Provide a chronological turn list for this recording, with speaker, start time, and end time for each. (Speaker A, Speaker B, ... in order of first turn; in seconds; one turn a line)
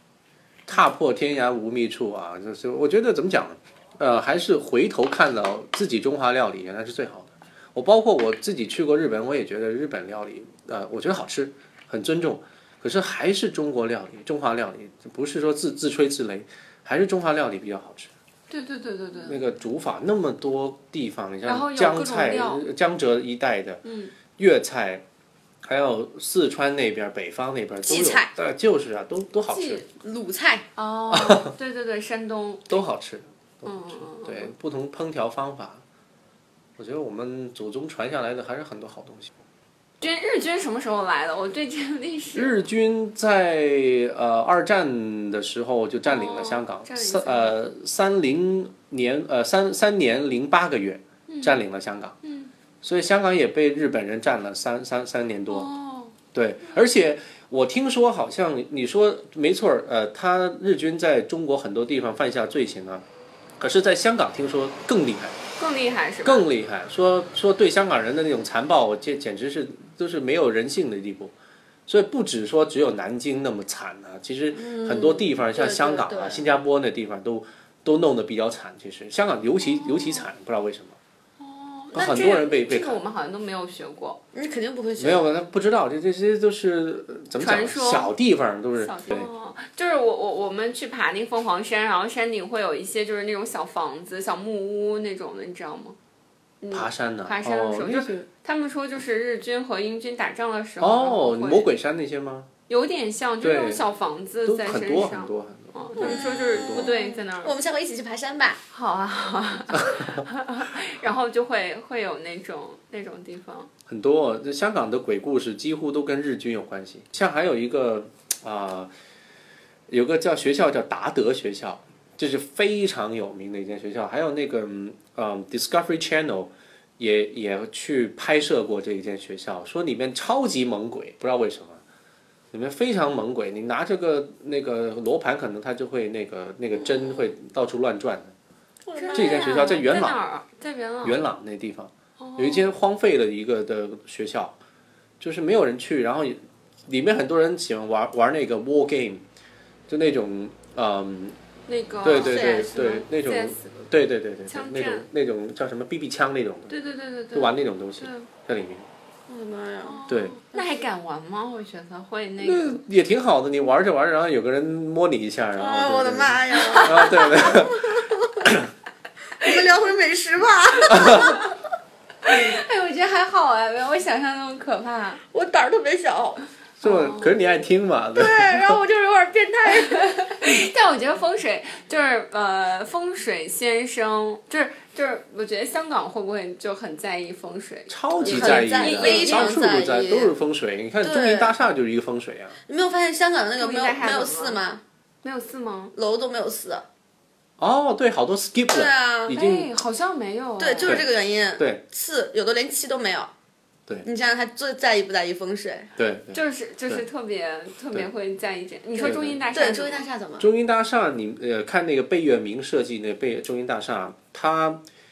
Speaker A: 0.7-18.1
Speaker B: 18.5-19.4
Speaker A: 19.2-23.8
Speaker B: 21.4-22.6
Speaker B: 23.8-24.1
Speaker A: 24.4-25.0
Speaker A: 25.6-29.8
Speaker C: 27.8-28.3
Speaker B: 29.5-29.9
Speaker C: 30.0-30.6
Speaker B: 30.8-32.7
Speaker A: 31.1-31.5
Speaker A: 32.7-35.8
Speaker B: 33.6-34.5
Speaker A: 36.8-39.3
Speaker B: 40.0-42.5
Speaker A: 42.3-52.1
Speaker B: 46.0-47.6
Speaker B: 51.3-51.6
Speaker B: 52.2-52.5
Speaker A: 52.8-55.7
Speaker B: 55.5-56.1
Speaker A: 56.3-63.0
Speaker A: 63.6-65.4
Speaker B: 65.6-66.5
Speaker A: 66.2-71.3
Speaker A: 71.9-81.0
Speaker C: 74.5-76.5
Speaker B: 79.7-80.3
Speaker B: 81.4-84.2
Speaker A: 81.9-83.0
Speaker C: 84.3-85.3
Speaker A: 85.0-89.3
Speaker B: 87.4-88.1
Speaker B: 88.8-96.0
Speaker B: 96.6-101.7
Speaker A: 96.7-98.2
Speaker A: 100.8-102.5
Speaker B: 102.7-107.5
Speaker A: 103.4-103.8
Speaker A: 104.5-106.9
Speaker C: 106.0-108.6
Speaker B: 108.7-113.7
Speaker A: 113.9-118.9
Speaker A: 119.9-131.8
Speaker A: 132.5-138.3
Speaker C: 138.8-139.6
Speaker B: 138.9-141.2
Speaker A: 139.1-140.2
Speaker A: 141.0-144.6
Speaker B: 142.2-142.7
Speaker A: 145.2-149.2
Speaker A: 149.9-151.4
Speaker B: 151.7-153.7
Speaker A: 152.0-156.7
Speaker C: 152.0-152.8
Speaker B: 154.5-155.1
Speaker B: 156.7-158.3
Speaker A: 157.3-158.9
Speaker C: 159.3-160.8
Speaker B: 159.8-162.8
Speaker A: 160.1-160.3
Speaker A: 162.4-168.7
Speaker C: 165.6-168.5
Speaker B: 166.6-167.0
Speaker C: 169.4-171.5
Speaker A: 170.9-171.3
Speaker B: 172.2-175.2
Speaker C: 175.3-176.4
Speaker A: 176.8-178.8
Speaker B: 176.8-177.3
Speaker C: 178.1-180.3
Speaker B: 180.2-189.6
Speaker A: 187.9-192.6
Speaker C: 188.2-190.4
Speaker C: 191.0-191.6
Speaker C: 192.6-194.8
Speaker B: 193.6-194.6
Speaker B: 195.2-195.9
Speaker C: 195.9-196.8
Speaker A: 197.6-199.7
Speaker C: 198.7-199.3
Speaker B: 199.3-201.0
Speaker C: 200.6-203.3
Speaker A: 200.8-201.8
Speaker C: 204.0-205.9
Speaker A: 205.9-207.0
Speaker B: 206.3-210.1
Speaker A: 209.0-209.4
Speaker C: 209.5-210.5
Speaker A: 210.4-214.8